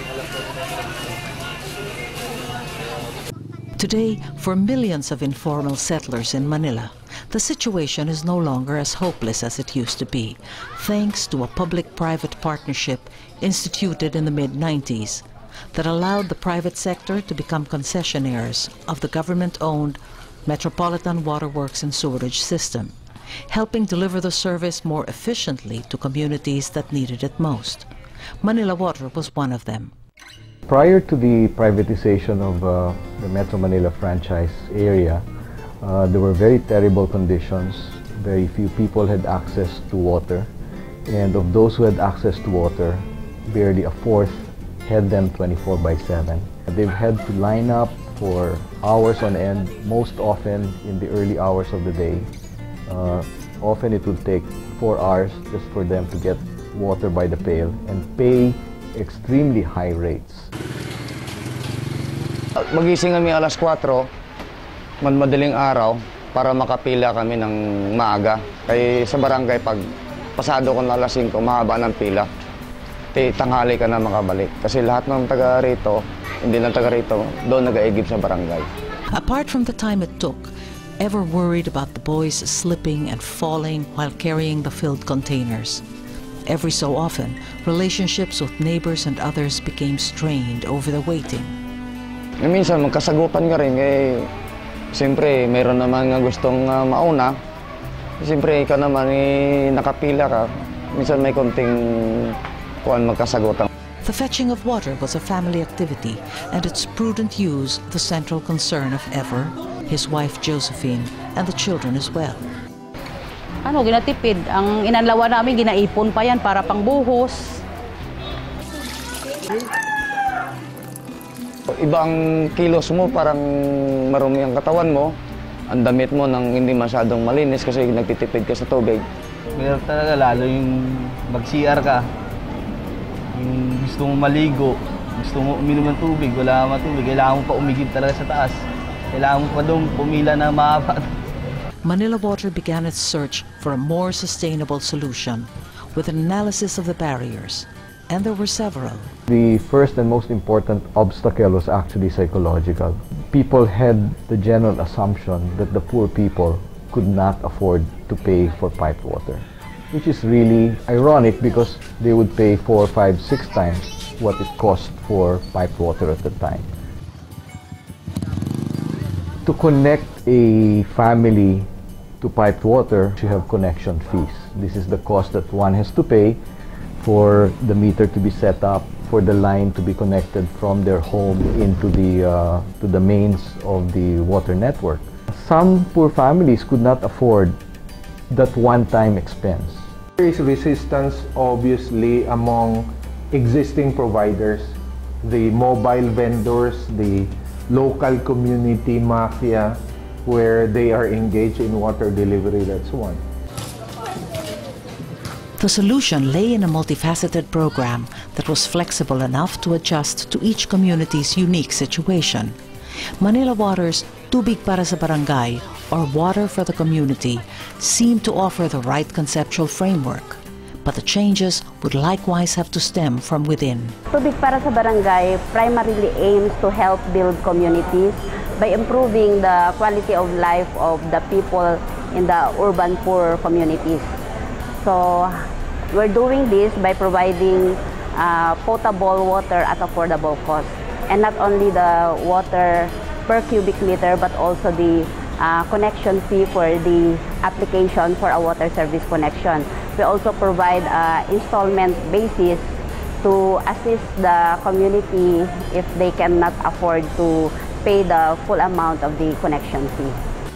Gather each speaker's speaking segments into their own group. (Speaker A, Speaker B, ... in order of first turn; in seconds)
Speaker A: 3.8-22.9, 23.5-27.9, 28.4-29.9, 79.1-85.8, 86.5-91.6, 104.0-112.4, 141.8-149.1, 205.6-212.6, 213.2-223.9
Speaker B: 30.7-35.2, 35.8-40.5, 41.1-52.3, 52.9-60.5, 149.3-166.7, 169.4-171.7, 172.2-176.4, 177.0-187.6, 188.3-189.9
Speaker C: 62.8-63.9, 65.1-65.9, 66.5-69.8, 70.6-72.2, 73.2-75.9, 76.5-78.6, 92.5-93.8, 95.1-97.2, 98.3-99.2, 99.8-100.3, 101.0-101.7, 103.0-103.5, 122.6-123.4, 124.2-124.9, 127.2-128.9
Speaker D: 113.6-117.6
Speaker E: 129.6-130.7, 131.3-132.0, 133.3-138.5, 139.2-141.0
Speaker F: 190.2-203.2
Speaker G: 224.1-234.1, 234.8-235.3, 235.9-252.6, 253.2-260.2